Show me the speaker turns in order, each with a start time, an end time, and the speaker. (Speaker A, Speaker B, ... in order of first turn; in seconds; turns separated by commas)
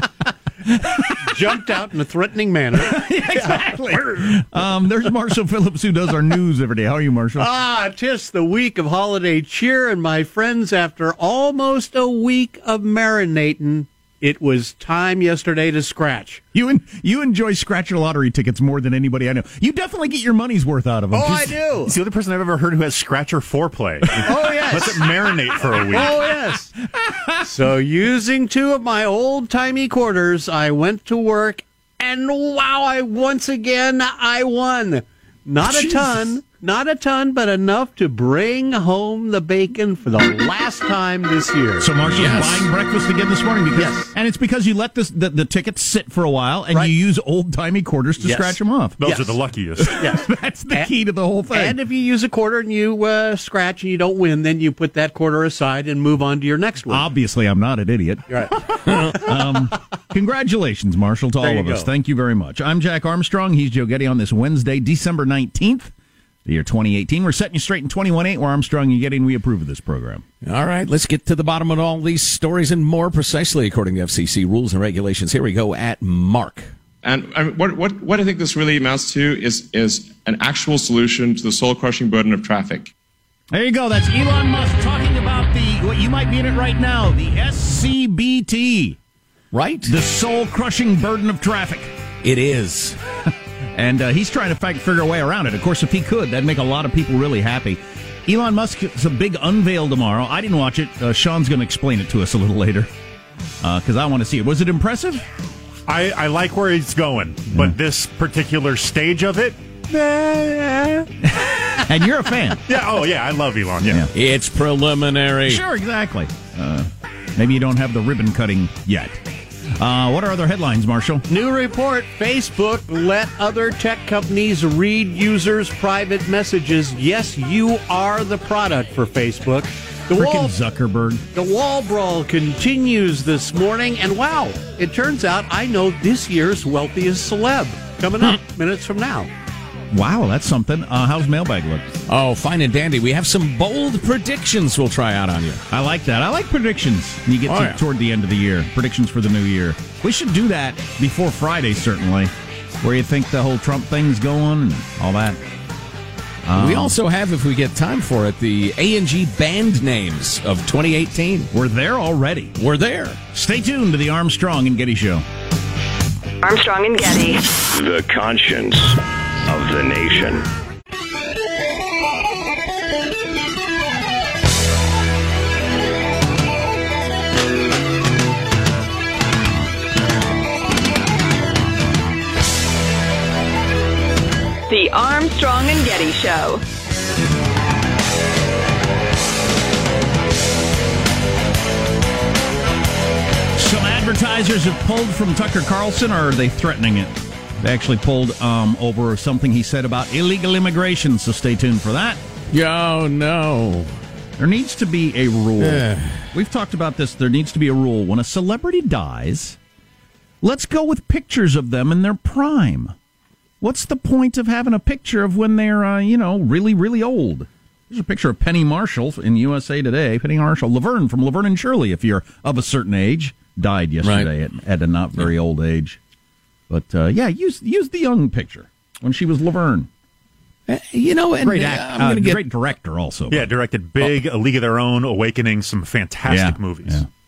Speaker A: 0.8-1.1, Speaker B: 1.1-4.4, Speaker A: 2.8-7.5, Speaker B: 7.4-16.4, Speaker A: 16.5-21.8, Speaker B: 21.1-21.9, Speaker C: 21.8-26.2, Speaker A: 24.2-24.9, Speaker B: 24.2-25.1, Speaker A: 25.9-26.3, Speaker B: 25.9-26.7, Speaker A: 26.8-27.5, Speaker B: 27.5-41.9, Speaker A: 35.6-36.2, Speaker A: 41.8-49.0, Speaker D: 42.1-42.7, Speaker B: 43.8-44.1, Speaker B: 48.2-49.4, Speaker C: 49.0-50.0, Speaker A: 49.8-51.8, Speaker B: 50.0-50.9, Speaker B: 51.5-57.1, Speaker A: 56.9-65.9, Speaker B: 58.3-58.6, Speaker D: 58.9-59.2, Speaker B: 61.4-61.9, Speaker A: 66.5-70.2, Speaker D: 70.4-76.7, Speaker E: 77.0-82.9, Speaker A: 83.5-89.0, Speaker D: 89.5-90.0, Speaker A: 89.8-91.9, Speaker D: 92.2-93.0, Speaker A: 93.8-102.9, Speaker A: 103.6-105.2, Speaker C: 105.9-111.1, Speaker A: 107.5-107.8, Speaker A: 111.4-112.6, Speaker C: 112.7-114.1, Speaker A: 113.8-114.1, Speaker D: 114.1-115.6, Speaker A: 115.5-119.2, Speaker A: 119.8-121.2, Speaker B: 121.3-130.5, Speaker A: 130.1-131.2, Speaker B: 131.3-139.3, Speaker A: 139.9-142.0, Speaker D: 142.1-145.6, Speaker A: 145.7-155.4, Speaker D: 147.5-147.8, Speaker A: 156.5-157.0, Speaker D: 156.6-161.5, Speaker A: 161.5-162.6, Speaker D: 162.6-163.2, Speaker A: 163.3-165.2, Speaker F: 166.4-167.5, Speaker G: 167.7-170.5, Speaker F: 184.7-186.6, Speaker A: 193.6-202.2, Speaker D: 202.5-203.9, Speaker A: 204.4-209.6, Speaker D: 205.6-206.3, Speaker A: 210.4-212.9, Speaker A: 213.6-226.0, Speaker D: 224.0-224.3, Speaker A: 226.7-229.9, Speaker D: 230.7-232.4, Speaker A: 231.4-233.5, Speaker C: 233.3-237.1, Speaker A: 236.2-237.1